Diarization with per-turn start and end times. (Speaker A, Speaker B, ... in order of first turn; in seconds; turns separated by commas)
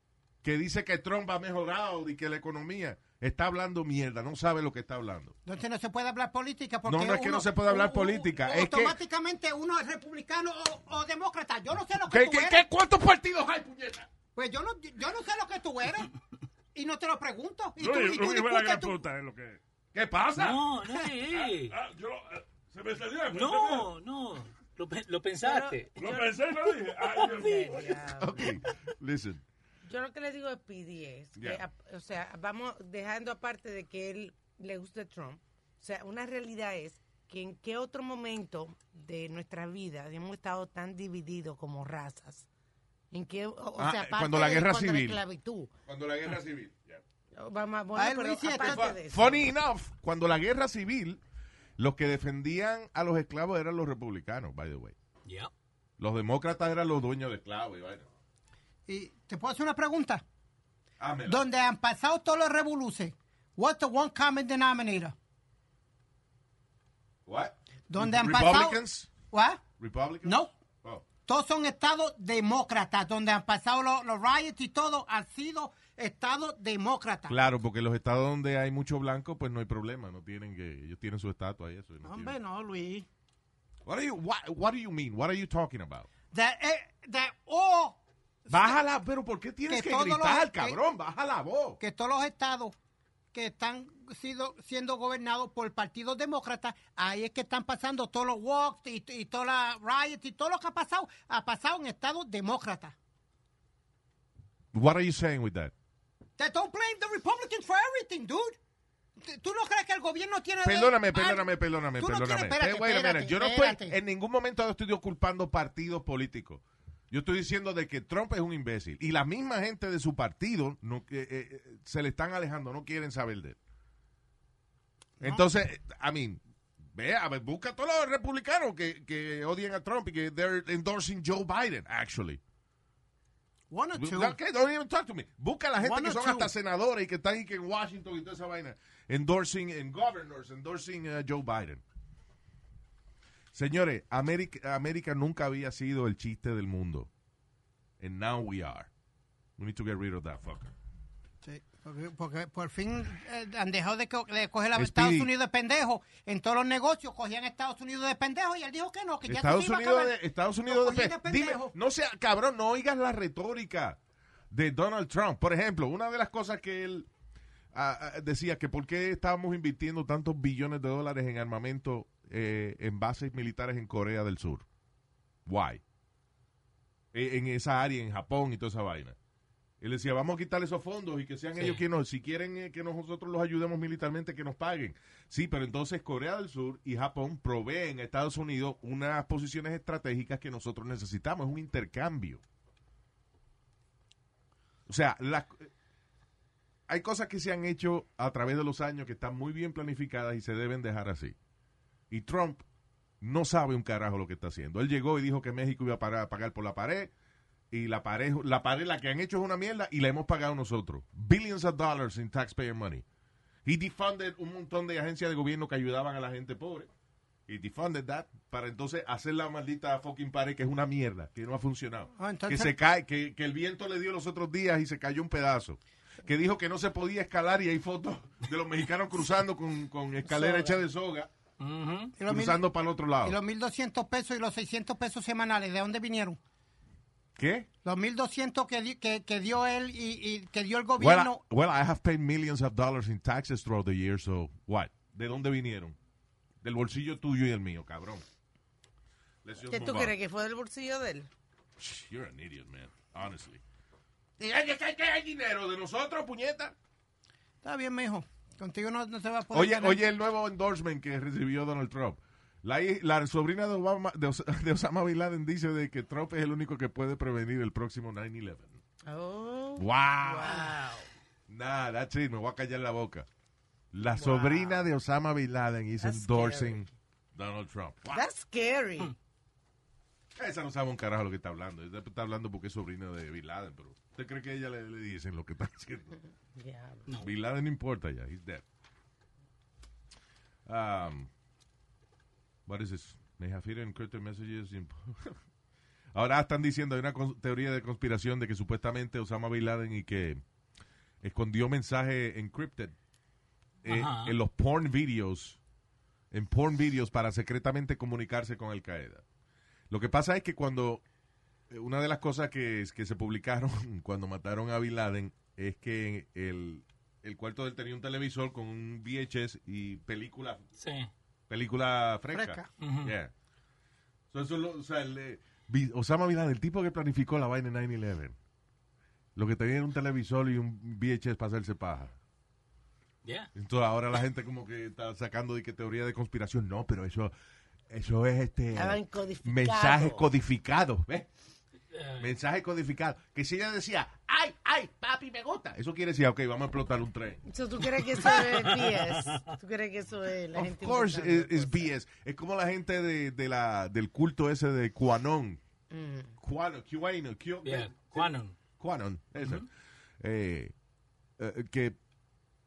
Speaker A: 0.4-5.4, Speaker B: 5.5-12.6, Speaker A: 6.9-9.0, Speaker A: 12.1-14.1, Speaker B: 14.3-16.1, Speaker B: 16.8-19.0, Speaker C: 17.8-19.6, Speaker A: 19.9-20.6, Speaker D: 20.4-21.7, Speaker C: 21.2-23.9, Speaker D: 23.3-25.9, Speaker E: 25.4-28.5, Speaker C: 26.0-28.1, Speaker A: 28.2-29.4, Speaker E: 29.9-42.5, Speaker A: 31.4-31.6, Speaker E: 43.1-45.7, Speaker A: 43.8-45.2, Speaker A: 45.9-47.0, Speaker E: 47.3-49.5, Speaker B: 48.0-48.9, Speaker A: 48.5-51.2, Speaker A: 51.8-55.0, Speaker D: 55.3-55.5, Speaker A: 56.0-58.1, Speaker B: 58.9-60.2, Speaker A: 61.0-61.4, Speaker B: 61.3-65.2, Speaker A: 67.3-69.1, Speaker B: 67.9-69.6, Speaker A: 69.8-71.1, Speaker B: 70.2-70.5, Speaker B: 71.2-77.3, Speaker A: 77.3-82.4, Speaker B: 82.0-83.1, Speaker A: 83.8-86.1, Speaker B: 86.3-88.8, Speaker A: 88.5-91.8, Speaker B: 89.7-90.8, Speaker B: 91.8-92.8, Speaker B: 93.3-103.0, Speaker A: 104.7-105.7, Speaker B: 106.4-108.6, Speaker B: 109.2-114.0, Speaker A: 110.6-123.6, Speaker A: 125.2-126.4, Speaker A: 126.9-132.4, Speaker B: 133.7-134.4, Speaker A: 134.0-141.8, Speaker B: 135.8-136.5, Speaker A: 143.5-147.1, Speaker A: 148.0-148.9, Speaker A: 149.6-150.7, Speaker B: 151.4-160.2, Speaker A: 154.8-155.3, Speaker A: 159.2-164.0, Speaker B: 160.7-161.7, Speaker A: 164.5-167.1, Speaker A: 167.7-174.7, Speaker A: 175.5-175.8, Speaker A: 177.1-179.2, Speaker A: 179.8-192.4, Speaker D: 181.6-181.8, Speaker A: 194.9-195.7, Speaker A: 196.9-201.4, Speaker A: 202.1-202.7, Speaker A: 203.2-207.1, Speaker A: 207.7-213.1, Speaker A: 213.7-216.9, Speaker A: 217.5-231.3, Speaker B: 222.2-222.7, Speaker E: 230.2-230.8, Speaker D: 231.6-232.1, Speaker B: 232.2-232.7, Speaker A: 232.3-233.4, Speaker B: 233.2-236.4, Speaker A: 237.4-237.7, Speaker B: 237.8-241.4, Speaker A: 241.0-246.0, Speaker A: 246.6-248.2, Speaker A: 249.4-250.1, Speaker E: 249.7-251.3, Speaker A: 251.8-253.6, Speaker A: 254.4-256.8, Speaker B: 257.6-260.0, Speaker A: 259.5-268.8, Speaker E: 269.1-271.1, Speaker A: 269.8-270.7, Speaker A: 271.5-273.3, Speaker A: 273.9-278.2, Speaker E: 274.1-274.8, Speaker E: 276.0-276.9, Speaker E: 278.1-279.1, Speaker A: 280.4-286.2, Speaker E: 286.6-287.1, Speaker A: 287.2-288.6, Speaker A: 290.7-291.3, Speaker A: 292.7-295.4, Speaker A: 296.1-300.4, Speaker A: 301.2-302.9, Speaker A: 303.8-305.6, Speaker D: 303.9-304.4, Speaker A: 306.3-309.2, Speaker A: 309.9-311.0, Speaker A: 311.7-320.6, Speaker D: 320.8-321.1, Speaker A: 321.5-323.3, Speaker B: 322.3-322.7, Speaker D: 322.8-323.1, Speaker A: 324.3-328.4, Speaker A: 329.4-332.2, Speaker D: 333.2-333.5, Speaker A: 333.6-337.3, Speaker A: 337.9-341.3, Speaker E: 338.8-340.3, Speaker D: 341.9-342.3, Speaker A: 342.2-347.4, Speaker E: 347.5-351.9, Speaker D: 348.3-349.4, Speaker A: 350.5-355.6, Speaker E: 355.9-356.4, Speaker A: 356.4-359.7, Speaker D: 357.6-358.6, Speaker A: 360.2-360.7, Speaker A: 361.4-362.0